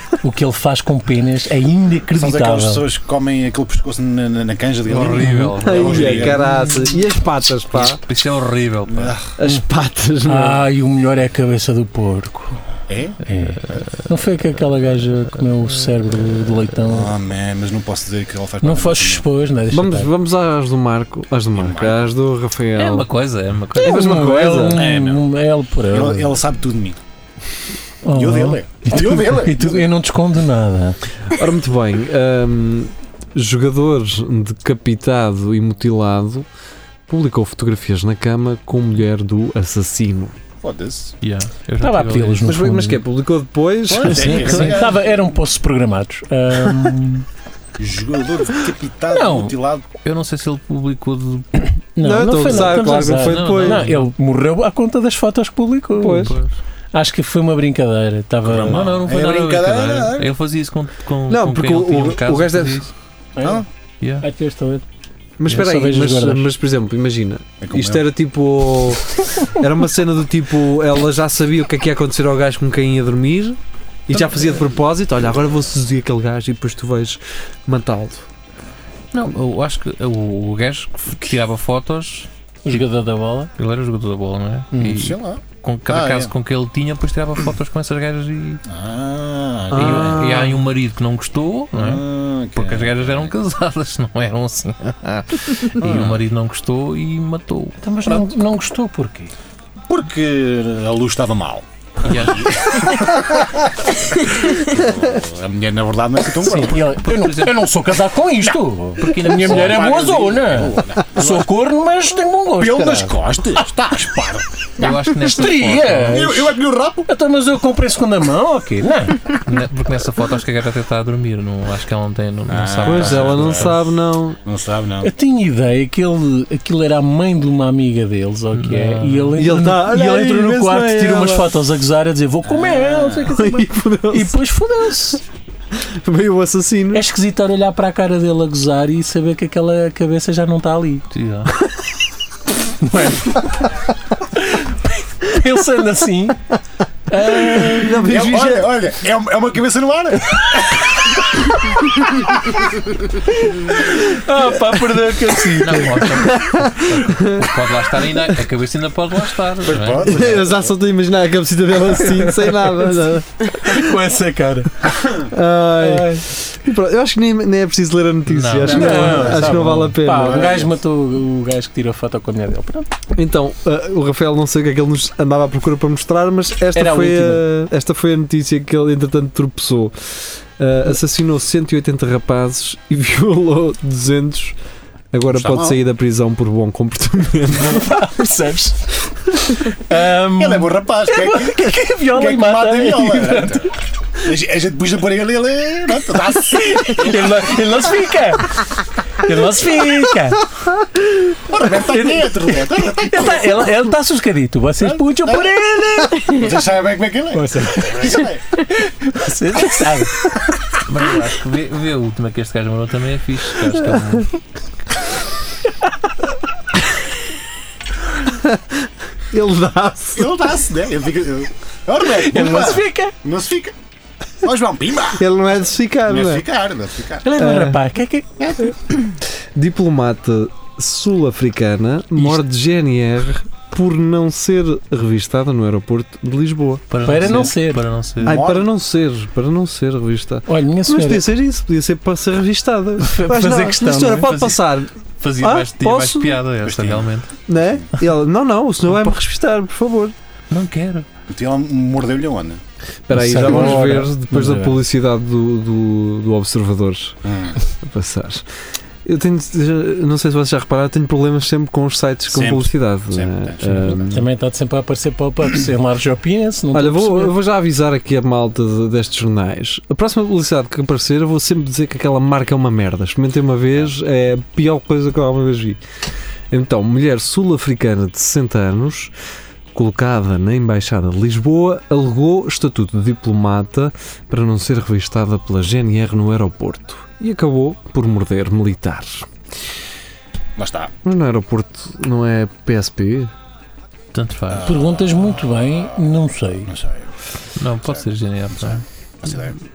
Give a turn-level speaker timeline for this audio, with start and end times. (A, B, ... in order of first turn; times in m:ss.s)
0:00.2-0:02.8 A
0:02.1-0:06.4 B
0:04.8-0:06.4 C
0:05.5-0:08.0 D
0:07.7-0:09.2 C
0:08.9-0:09.3 B
0:09.4-0:10.6 D
0:10.2-0:12.6 A
0:12.9-0:13.2 B
0:13.2-0:17.1 A
0:16.8-0:19.2 B
0:18.6-0:20.1 A
0:19.7-0:23.1 D
0:21.5-0:22.0 B
0:22.8-0:24.2 C
0:23.7-0:24.8 D
0:23.8-0:26.4 A
0:24.7-0:25.3 B
0:25.9-0:27.0 B
0:28.0-0:31.0 A
0:28.0-0:29.9 B
0:31.3-0:36.5 D
0:37.1-0:40.4 D
0:40.6-0:41.1 B
0:41.2-0:42.7 C
0:41.8-0:43.0 A
0:42.4-0:44.7 D
0:43.9-0:45.0 B
0:44.0-0:47.2 A
0:47.8-0:49.8 B
0:49.1-0:49.5 A
0:50.0-0:51.6 C
0:52.0-0:56.4 A
0:52.0-0:53.9 D
0:52.5-0:54.1 C
0:56.0-0:56.3 D
0:56.2-0:56.5 C
0:56.9-0:59.2 A
0:58.4-1:00.3 B
0:58.7-1:02.9 C
1:01.3-1:02.9 D
1:03.4-1:03.6 A
1:04.2-1:04.8 A
1:05.4-1:18.2 D
1:05.5-1:06.5 A
1:07.6-1:08.0 B
1:19.1-1:22.8 C
1:22.6-1:23.5 A
1:23.6-1:28.6 C
1:24.7-1:25.0 A
1:24.8-1:26.3 B
1:28.7-1:30.5 B
1:29.7-1:30.5 D
1:29.7-1:38.2 C
1:31.7-1:33.3 B
1:35.8-1:36.2 B
1:37.8-1:39.3 A
1:39.9-1:46.9 B
1:42.0-1:43.0 C
1:46.4-1:53.2 A
1:46.9-1:47.7 C
1:49.0-1:50.0 C
1:49.2-1:51.5 B
1:52.6-1:54.5 B
1:54.8-1:56.3 C
1:55.2-1:59.4 A
1:56.0-1:57.1 B
1:59.4-2:03.8 C
2:02.5-2:03.8 B
2:02.8-2:04.4 D
2:04.4-2:05.1 B
2:05.0-2:15.2 A
2:08.5-2:09.3 C
2:09.4-2:11.6 D
2:12.5-2:13.3 B
2:13.2-2:14.4 D
2:15.7-2:17.0 D
2:16.9-2:21.1 A
2:21.1-2:21.5 C
2:22.8-2:23.8 A
2:24.3-2:26.4 A
2:27.1-2:28.1 A
2:27.2-2:28.8 D
2:28.0-2:31.2 B
2:32.0-2:33.0 B
2:33.5-2:36.0 A
2:35.6-2:40.2 C
2:36.1-2:37.6 D
2:39.6-2:40.7 B
2:40.0-2:43.8 D
2:41.9-2:42.7 A
2:43.5-2:44.9 A
2:45.2-2:50.5 D
2:45.8-2:46.2 A
2:48.3-2:49.2 C
2:48.6-2:50.7 B
2:48.7-2:52.9 A
2:53.1-3:04.6 D
2:56.7-2:57.5 A
3:05.1-3:08.0 D
3:05.3-3:05.8 B
3:07.6-3:13.7 A
3:10.4-3:17.9 B
3:16.4-3:20.4 A
3:21.4-3:23.7 B
3:21.6-3:26.4 A
3:24.8-3:25.5 B
3:26.2-3:28.4 B
3:27.3-3:30.4 A
3:30.8-3:34.3 C
3:38.3-3:40.3 D
3:40.1-3:43.7 B
3:42.0-3:43.1 A
3:44.4-3:45.3 B
3:45.2-3:46.4 D
3:46.0-3:47.3 B
3:47.2-3:48.4 A
3:47.4-3:47.8 D
3:48.4-3:48.7 B
3:49.6-3:57.4 D
3:56.9-3:58.4 C
3:57.0-3:57.8 A
3:58.2-3:58.7 B
3:58.2-4:06.4 D
4:00.5-4:01.3 A
4:03.0-4:04.4 A
4:05.2-4:07.3 C
4:06.6-4:07.1 B
4:07.5-4:10.1 D
4:10.5-4:11.0 C
4:11.3-4:12.6 B
4:13.1-4:18.4 D
4:13.1-4:14.8 A
4:17.2-4:17.6 B
4:19.0-4:24.2 D
4:22.3-4:24.2 B
4:24.0-4:27.3 A
4:26.7-4:35.8 D
4:36.5-4:39.1 D
4:39.7-4:49.3 D
4:50.6-4:50.9 B
4:51.0-4:53.3 D
4:54.1-4:54.8 C
4:54.5-4:56.0 B
4:54.6-4:56.7 A
4:56.7-4:57.1 B
4:57.6-4:58.8 C
4:57.8-4:59.6 B